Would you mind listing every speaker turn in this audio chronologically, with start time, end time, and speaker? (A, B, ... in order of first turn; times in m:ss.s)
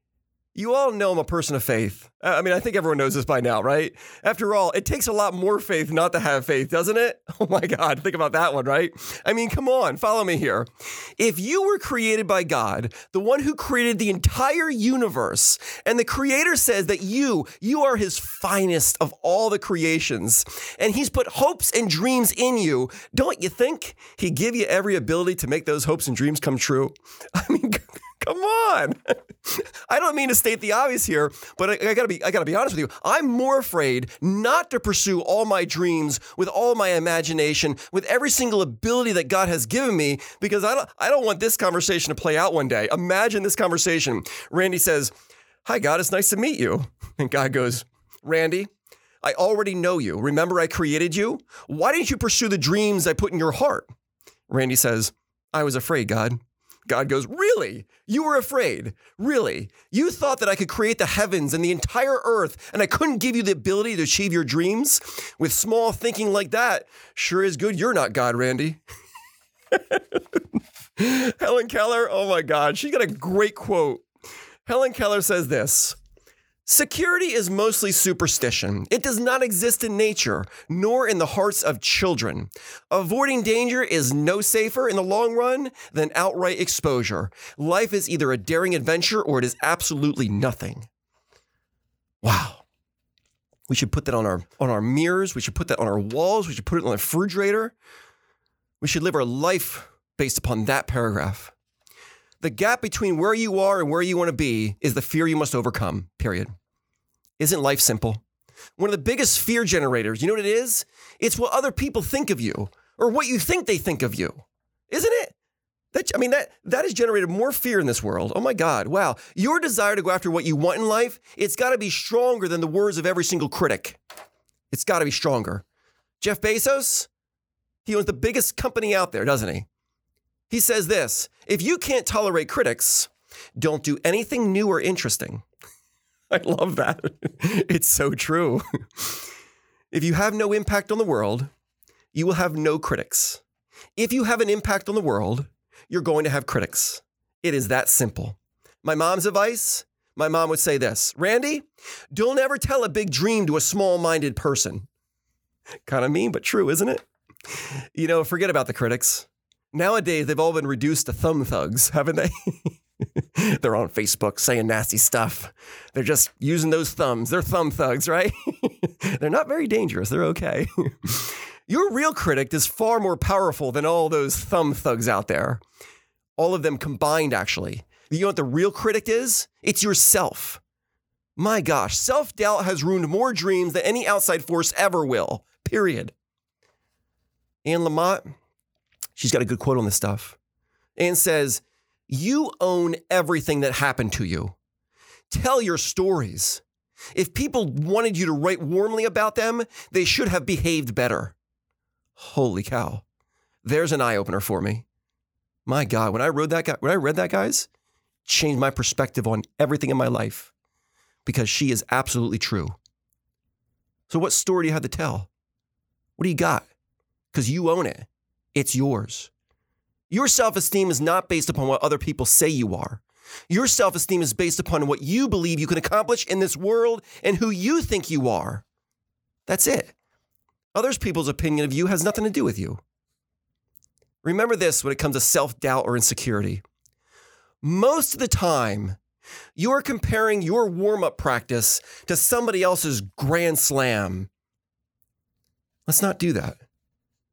0:00.6-0:45.1 A
0:45.6-0:48.7 A
0:49.2-0:53.9 A
0:54.5-1:08.8 A
1:09.7-1:10.4 A
1:11.0-1:14.1 A
1:14.7-1:16.0 A
1:16.7-1:30.9 A
1:32.2-1:32.6 A
1:33.7-1:37.7 A
1:38.8-1:41.5 A
1:42.4-1:46.5 A
1:47.4-1:48.2 A
1:48.8-1:55.3 A
1:55.9-2:04.0 A
2:04.7-2:05.6 A
2:06.2-2:07.1 A
2:07.8-2:09.7 A
2:10.5-2:15.4 A
2:16.3-2:19.2 A
2:19.9-2:21.5 A
2:22.1-2:23.4 A
2:24.0-2:34.9 A
2:35.9-2:37.0 A
2:37.6-2:55.6 A
2:56.4-3:00.6 A
3:01.4-3:06.1 A
3:07.6-3:08.3 A
3:09.2-3:10.4 A
3:11.0-3:14.6 A
3:15.3-3:16.6 A
3:17.2-3:21.4 A
3:22.2-3:23.0 A
3:23.6-3:24.8 A
3:25.7-3:27.7 A
3:28.3-3:30.5 A
3:31.2-3:32.8 A
3:34.1-3:35.3 A
3:36.2-3:36.7 A
3:37.3-3:39.3 A
3:40.1-3:48.6 A
3:49.5-3:49.9 A
3:50.7-3:52.8 A
3:54.2-3:56.6 A
3:57.6-3:59.0 A
3:59.6-4:04.3 A
4:05.9-4:06.6 A